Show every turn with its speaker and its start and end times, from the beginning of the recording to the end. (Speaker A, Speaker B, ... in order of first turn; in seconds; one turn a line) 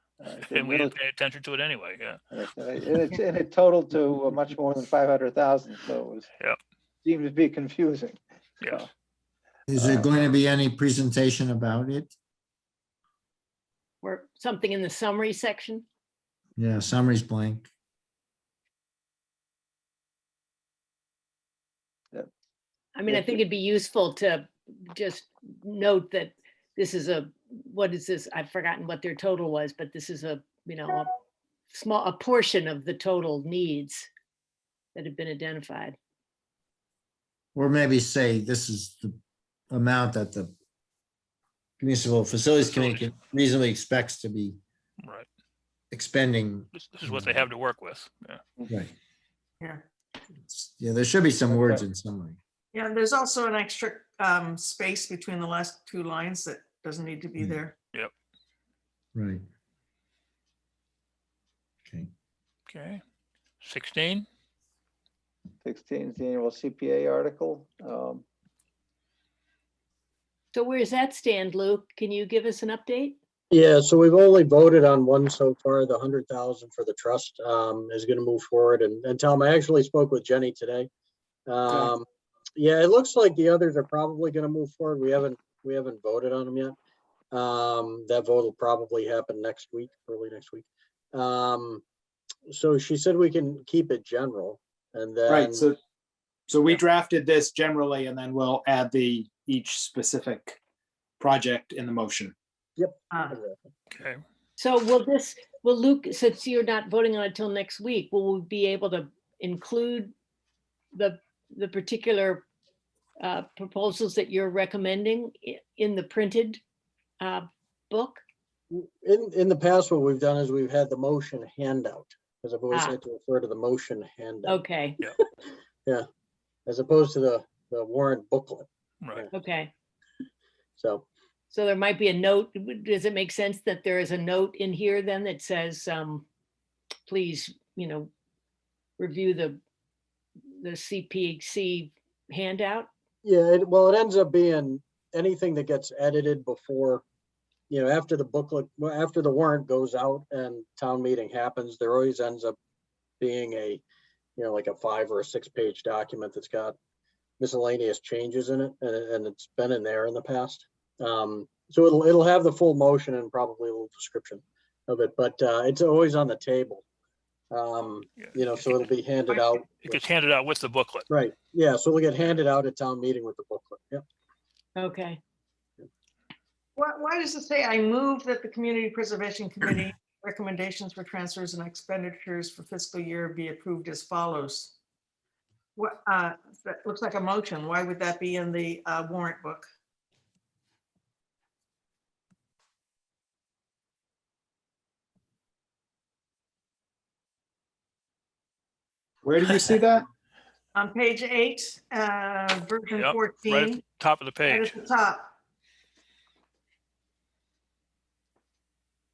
Speaker A: 0.2-0.9
Speaker B: 0.5-2.2
Speaker A: 2.3-6.3
Speaker A: 7.0-8.9
Speaker C: 9.7-12.1
Speaker A: 9.8-10.1
Speaker D: 14.0-15.9
Speaker C: 16.6-17.7
Speaker D: 22.9-31.2
Speaker A: 23.1-23.3
Speaker D: 31.7-34.1
Speaker D: 35.0-36.0
Speaker C: 37.5-39.2
Speaker C: 39.7-40.5
Speaker C: 41.8-44.6
Speaker B: 42.6-43.1
Speaker B: 45.0-45.3
Speaker C: 45.9-47.5
Speaker B: 46.7-48.4
Speaker C: 50.4-52.4
Speaker A: 51.5-51.8
Speaker E: 52.7-57.8
Speaker C: 59.1-59.5
Speaker C: 61.9-62.1
Speaker B: 62.7-63.0
Speaker B: 63.6-64.3
Speaker A: 65.6-68.2
Speaker D: 70.5-73.2
Speaker F: 73.5-80.9
Speaker F: 81.5-82.0
Speaker F: 82.6-86.8
Speaker F: 87.3-91.8
Speaker F: 92.5-95.7
Speaker G: 95.3-95.8
Speaker G: 96.5-100.6
Speaker G: 101.2-102.3
Speaker F: 102.8-103.6
Speaker E: 103.1-103.4
Speaker B: 103.9-104.2
Speaker D: 104.6-110.1
Speaker D: 111.0-112.4
Speaker D: 113.2-116.6
Speaker D: 117.2-118.2
Speaker F: 118.7-124.6
Speaker D: 122.7-123.0
Speaker D: 124.5-125.1
Speaker F: 126.7-129.3
Speaker B: 129.0-129.3
Speaker D: 129.3-129.7
Speaker F: 130.8-131.1
Speaker D: 131.5-136.3
Speaker D: 137.1-138.1
Speaker D: 139.0-139.6
Speaker D: 140.6-142.9
Speaker F: 143.2-147.0
Speaker F: 147.7-152.6
Speaker F: 153.2-153.8
Speaker F: 154.4-156.8
Speaker F: 157.4-166.8
Speaker F: 167.5-170.0
Speaker B: 168.2-168.8
Speaker B: 169.3-171.1
Speaker F: 171.1-174.0
Speaker D: 174.8-175.2
Speaker E: 176.8-184.7
Speaker E: 185.8-189.7
Speaker G: 199.2-200.1
Speaker E: 200.7-203.8
Speaker B: 203.0-204.7
Speaker E: 204.5-205.3